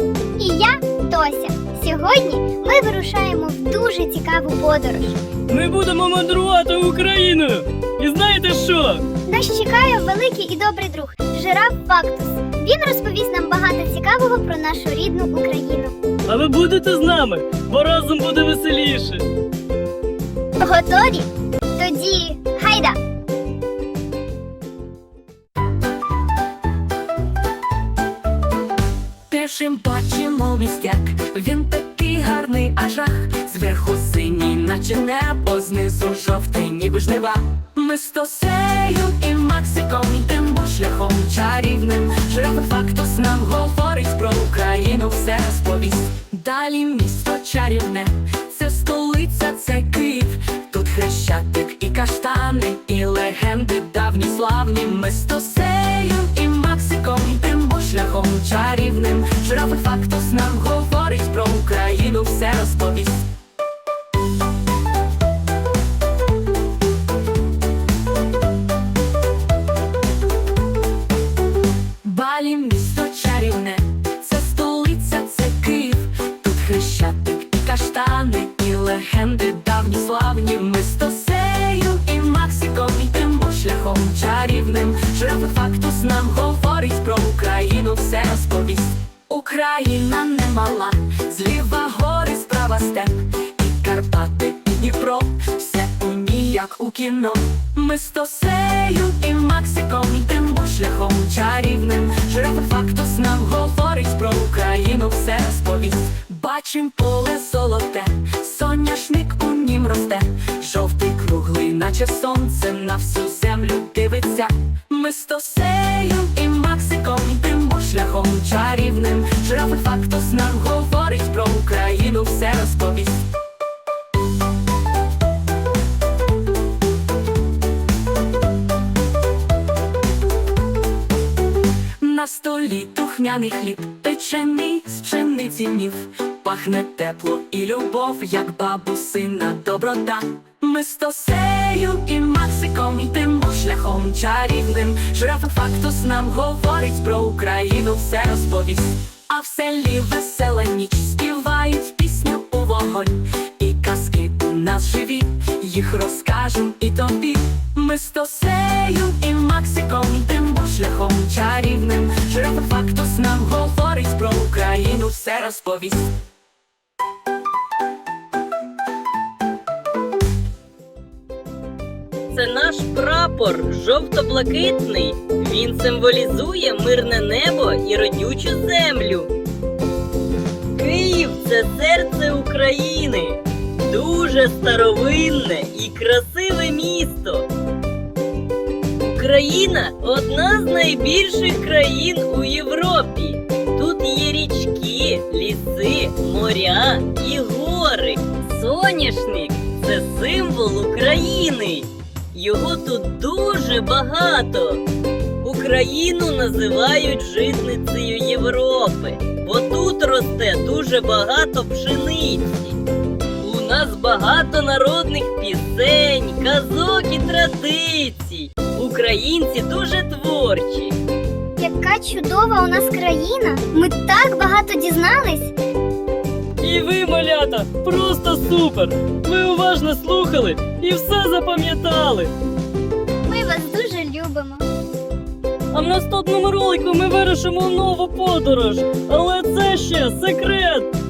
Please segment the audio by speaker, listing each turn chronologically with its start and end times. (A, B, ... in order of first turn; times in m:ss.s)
0:00.4-0:05.2 A
0:05.5-0:09.0 B
0:09.3-0:15.9 A
0:16.3-0:19.2 B
0:20.6-0:23.0 A
0:29.3-1:03.3 C
1:12.0-2:03.3 C
2:12.0-2:46.1 C
2:52.3-2:59.3 D
3:00.7-3:07.5 D
3:09.0-3:24.8 D
3:25.4-3:32.8 D
3:33.4-3:41.0 D
3:41.6-3:45.5 A
3:46.6-3:52.3 B
3:53.3-3:54.7 A
3:55.7-4:00.9 B